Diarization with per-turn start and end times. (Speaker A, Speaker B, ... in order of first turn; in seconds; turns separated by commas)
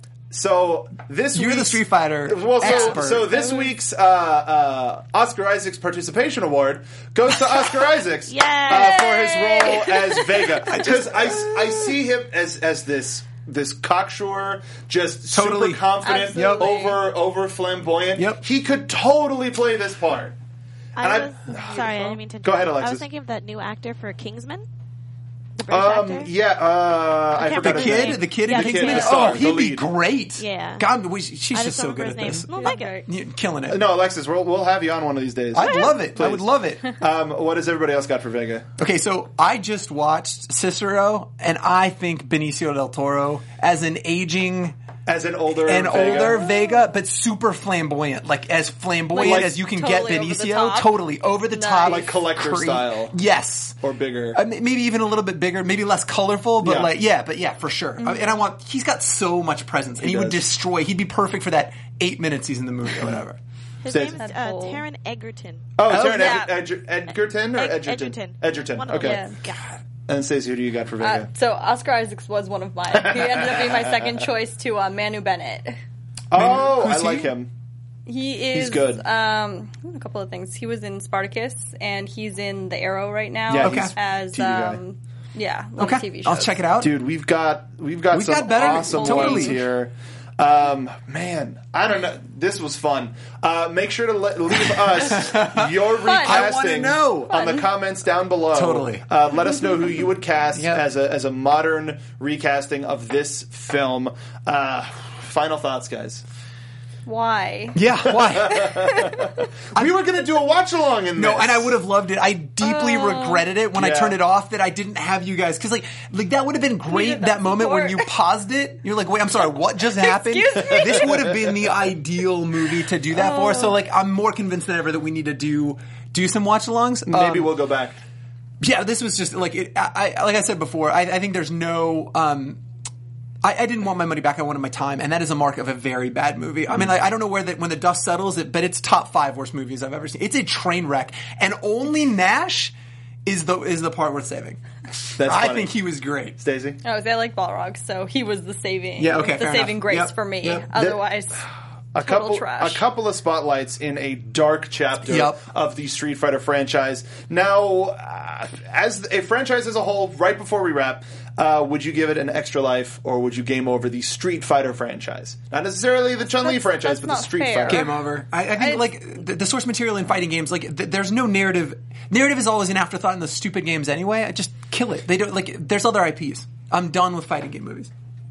Speaker A: 0.3-20.3, Speaker B: 1.3-3.4, Speaker C: 2.6-3.7, Speaker D: 8.3-9.2, Speaker C: 8.6-10.9, Speaker B: 10.6-11.9, Speaker B: 15.3-16.7, Speaker C: 16.0-17.0, Speaker B: 18.1-18.4, Speaker D: 20.9-24.6, Speaker A: 21.0-23.1, Speaker D: 25.6-26.3, Speaker A: 25.7-29.9, Speaker D: 27.3-29.4, Speaker B: 27.5-33.9, Speaker D: 30.4-30.8, Speaker D: 31.5-33.0, Speaker C: 32.5-33.0, Speaker A: 33.7-38.7, Speaker B: 35.5-36.8, Speaker C: 35.6-36.0, Speaker B: 38.8-44.8, Speaker A: 45.0-46.5, Speaker B: 45.6-53.8, Speaker C: 46.4-46.8, Speaker C: 49.1-52.1, Speaker A: 49.1-49.6, Speaker A: 51.8-53.2, Speaker A: 53.8-54.4, Speaker B: 54.3-63.4, Speaker A: 56.6-56.9, Speaker C: 58.0-58.4, Speaker A: 60.0-60.4, Speaker D: 63.8-65.7, Speaker A: 63.9-64.2, Speaker C: 64.2-64.8, Speaker A: 65.8-69.2, Speaker B: 65.9-66.4, Speaker C: 65.9-66.5, Speaker D: 67.5-69.7, Speaker C: 69.0-69.3, Speaker A: 70.1-71.3, Speaker C: 71.0-75.8, Speaker A: 73.0-74.0, Speaker A: 76.3-77.5, Speaker B: 76.3-77.3, Speaker C: 78.1-86.6, Speaker A: 78.5-79.0, Speaker A: 83.5-84.8, Speaker B: 83.6-83.9, Speaker B: 85.8-86.9, Speaker A: 86.8-106.2, Speaker B: 88.1-89.6, Speaker C: 88.5-89.6, Speaker B: 94.7-97.4, Speaker C: 96.0-96.5, Speaker C: 97.3-97.7, Speaker B: 98.5-99.0, Speaker B: 100.5-100.8, Speaker C: 107.0-107.8, Speaker B: 107.7-108.8, Speaker A: 108.1-111.8, Speaker C: 108.5-109.4, Speaker B: 111.1-127.5, Speaker C: 112.6-113.5, Speaker A: 113.7-114.2, Speaker C: 116.9-118.1, Speaker C: 119.9-121.4, Speaker A: 120.7-121.6, Speaker C: 123.1-123.8, Speaker A: 127.0-128.0, Speaker B: 128.6-132.6, Speaker B: 133.4-142.7, Speaker B: 143.2-144.6, Speaker A: 145.1-145.8, Speaker B: 145.2-146.4, Speaker A: 146.4-146.8, Speaker C: 146.8-151.4, Speaker B: 149.0-150.6, Speaker A: 150.7-151.0, Speaker A: 151.9-167.9, Speaker C: 152.0-152.8, Speaker B: 155.1-155.4, Speaker C: 166.4-168.0, Speaker B: 167.7-177.9, Speaker C: 168.5-168.8